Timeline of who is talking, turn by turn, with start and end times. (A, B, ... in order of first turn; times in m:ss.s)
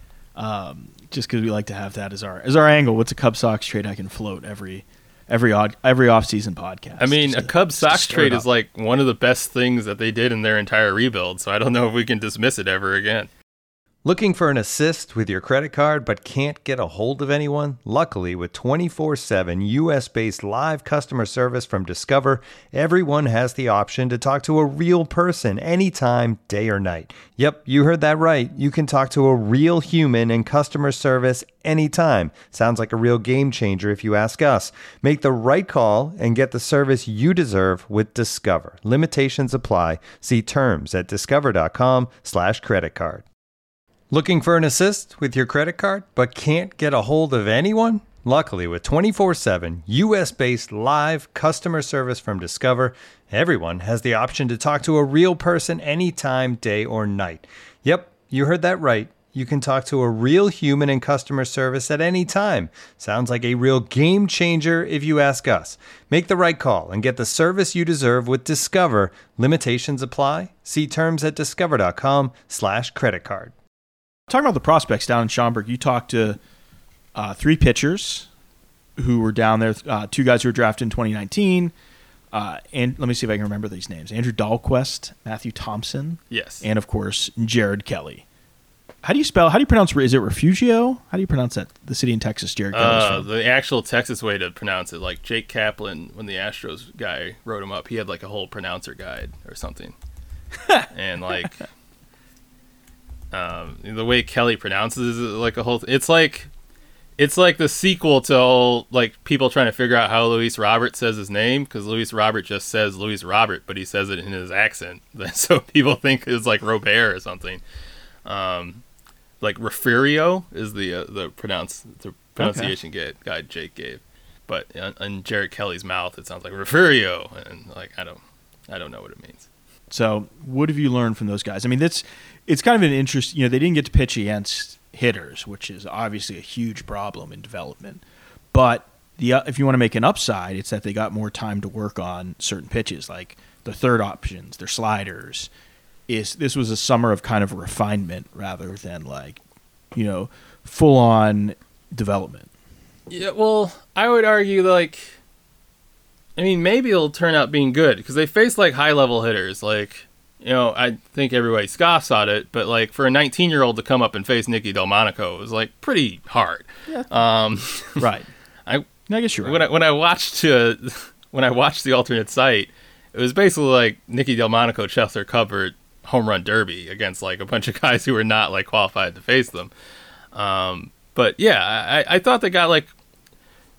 0:00.4-0:08.5 A
0:07.0-0:13.3 B
0:14.0-0:43.2 C
0:44.1-1:13.5 C
1:14.3-1:16.4 A
1:17.2-1:18.3 A
1:19.0-1:21.7 A
1:22.3-1:28.3 A
1:26.3-1:26.6 B
1:29.0-1:33.3 A
1:32.7-1:39.9 B
1:40.9-1:41.6 B
1:43.3-1:46.5 B
1:47.2-1:57.6 B
1:58.2-1:58.8 B
1:59.4-2:09.5 B
2:02.4-2:02.8 A
2:09.9-2:25.5 A
2:26.1-2:29.4 A
2:29.9-2:32.5 A
2:33.1-2:35.2 B
2:36.4-2:48.0 B
2:48.0-2:48.3 A
2:49.1-2:49.7 A
2:49.4-2:59.7 B
3:00.3-3:02.9 B